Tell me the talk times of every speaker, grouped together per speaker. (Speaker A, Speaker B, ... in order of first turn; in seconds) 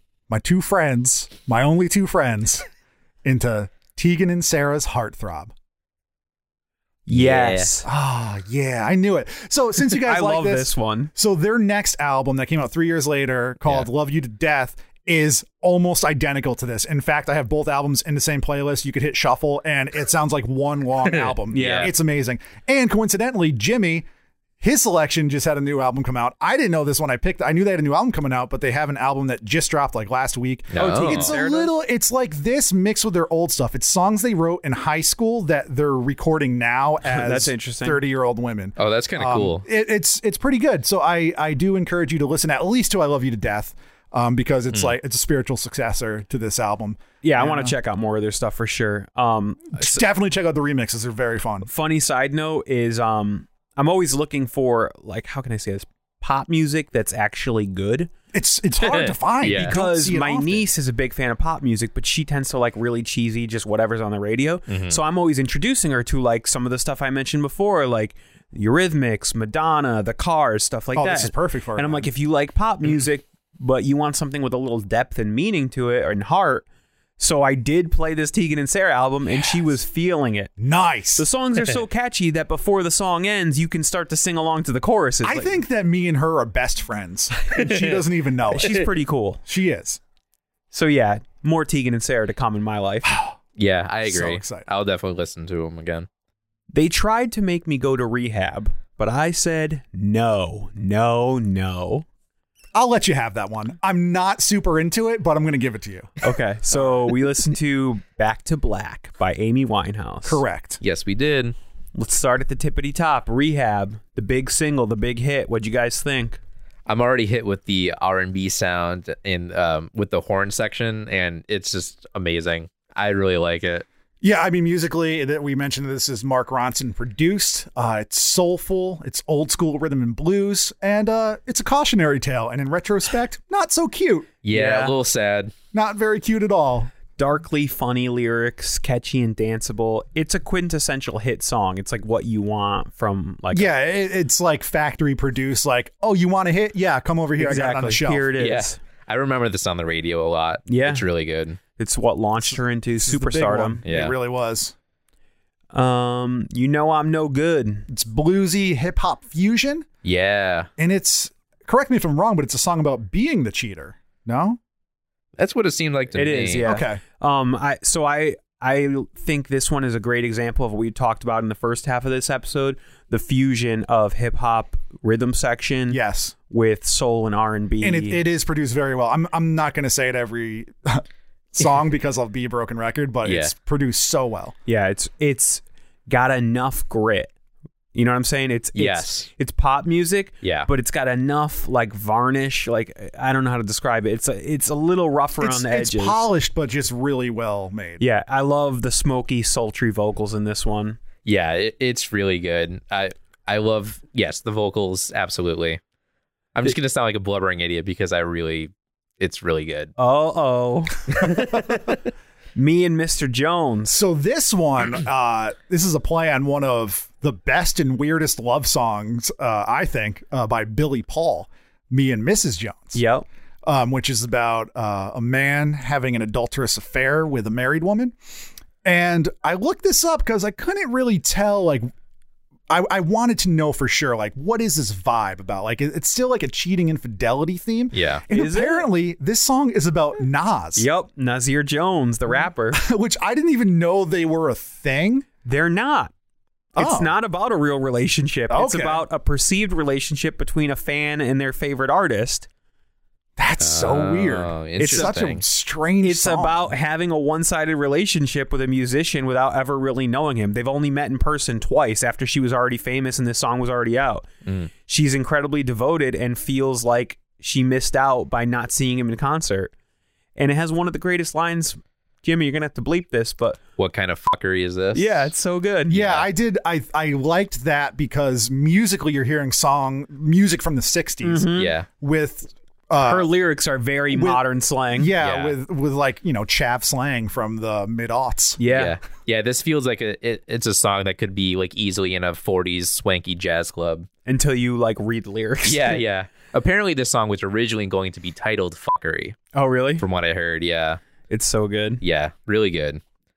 Speaker A: 0.3-2.6, 3.2-5.5, 7.8-24.1, 24.6-47.7, 49.7-51.7, 58.3-60.7, 70.9-72.1, 80.6-81.3, 85.2-88.8, 89.5-90.0, 93.0-93.4, 94.0-94.7, 102.7-107.0, 110.2-110.8, 124.2-134.3, 135.7-136.9, 143.5-148.3, 152.4-154.7, 157.9-159.8, 160.8-164.6, 166.6-167.0, 175.9-176.3, 177.8-184.5, 195.4-198.0, 213.9-223.0, 223.6-228.2, 228.8-231.9, 232.7-240.8, 242.7-245.2, 246.8-247.1, 248.5-249.1, 253.4-256.7, 275.9-283.3, 284.1-284.4, 284.9-288.6
Speaker B: 7.1-7.9, 10.0-11.1, 21.5-21.9, 30.8-31.7, 37.0-38.0, 47.2-50.0, 51.6-58.1, 59.5-76.6, 77.2-80.5, 81.2-85.6, 88.5-89.4, 90.7-93.1, 96.7-102.0, 106.2-110.4, 111.9-116.4, 134.5-134.9, 137.1-143.7, 147.4-148.8, 150.7-151.1, 151.8-153.8, 155.7-157.9, 166.1-178.2, 184.7-187.3, 187.9-196.2, 198.0-201.0, 210.0-211.3, 212.6-214.0, 222.9-223.2, 238.3-238.9, 240.8-242.8, 245.4-246.1, 246.8-252.5, 254.8-255.2, 256.0-264.3, 264.8-269.7, 270.4-273.6, 274.9-276.0, 281.2-281.7, 283.0-285.1, 288.6-288.9, 294.2-296.0, 299.5-300.0, 301.3-302.0
Speaker C: 7.1-7.7, 21.0-21.9, 30.7-31.3, 38.8-39.6, 58.8-59.8, 64.7-65.0, 87.5-88.0, 93.6-96.1, 110.8-111.5, 116.8-123.8, 134.4-135.5, 148.4-151.6, 153.8-154.1, 160.0-160.7, 165.4-166.7, 183.2-183.5, 188.7-189.3, 190.4-190.7, 201.2-205.8, 206.5-209.9, 211.1-212.0, 237.9-238.2, 253.6-255.4, 273.8-275.3, 275.9-276.2, 281.6-281.9, 285.2-285.6, 288.7-294.1, 295.6-299.4, 300.0-301.0, 302.0-303.0